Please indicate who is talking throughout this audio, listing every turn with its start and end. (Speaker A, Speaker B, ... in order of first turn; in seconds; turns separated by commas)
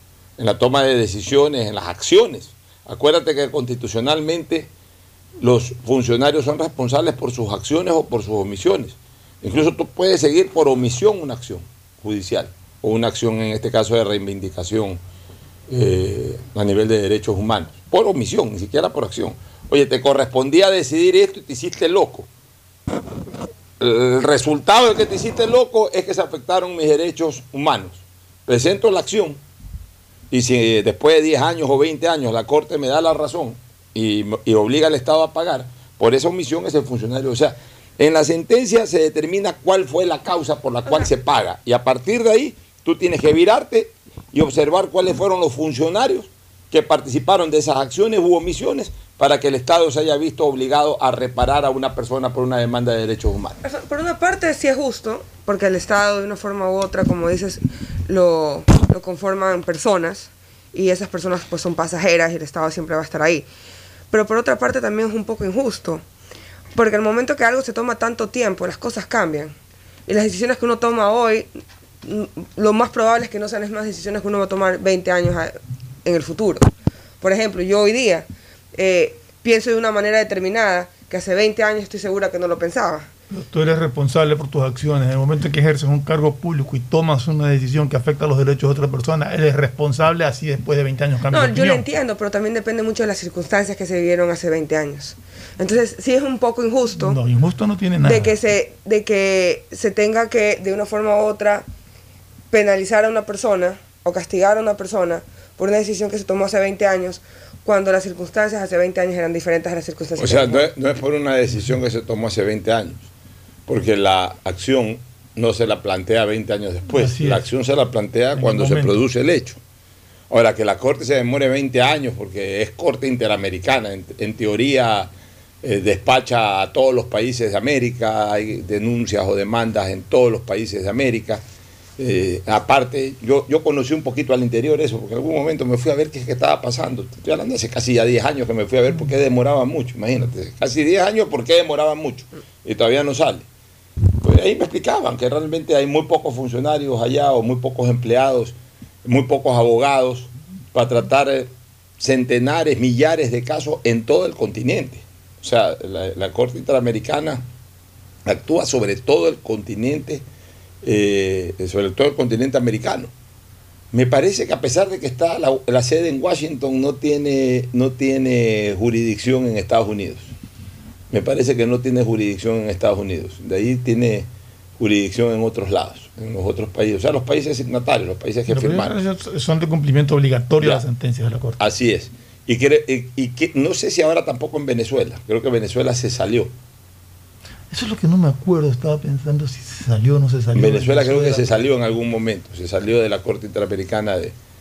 Speaker A: 0.4-4.7, Speaker A: 5.4-15.0, Speaker A: 15.7-22.3, Speaker A: 23.8-29.4, Speaker A: 30.3-53.6, Speaker B: 53.6-63.5, Speaker B: 64.1-66.0, Speaker B: 66.7-69.5, Speaker B: 70.1-71.5, Speaker B: 72.0-76.7, Speaker B: 77.2-83.1, Speaker C: 83.3-91.8, Speaker B: 91.3-97.2, Speaker C: 96.9-98.3, Speaker B: 98.0-101.7, Speaker B: 102.5-110.7, Speaker A: 110.2-113.1, Speaker A: 113.7-119.6, Speaker C: 116.9-117.4, Speaker C: 118.3-119.0, Speaker A: 120.3-125.1, Speaker A: 125.6-131.4, Speaker A: 132.0-143.5, Speaker A: 144.2-157.4, Speaker A: 158.2-160.2, Speaker A: 160.8-163.1, Speaker A: 163.9-170.3, Speaker A: 171.1-174.3, Speaker A: 174.8-179.0, Speaker C: 178.5-181.6, Speaker A: 181.6-186.5, Speaker C: 187.7-191.6, Speaker A: 190.5-194.3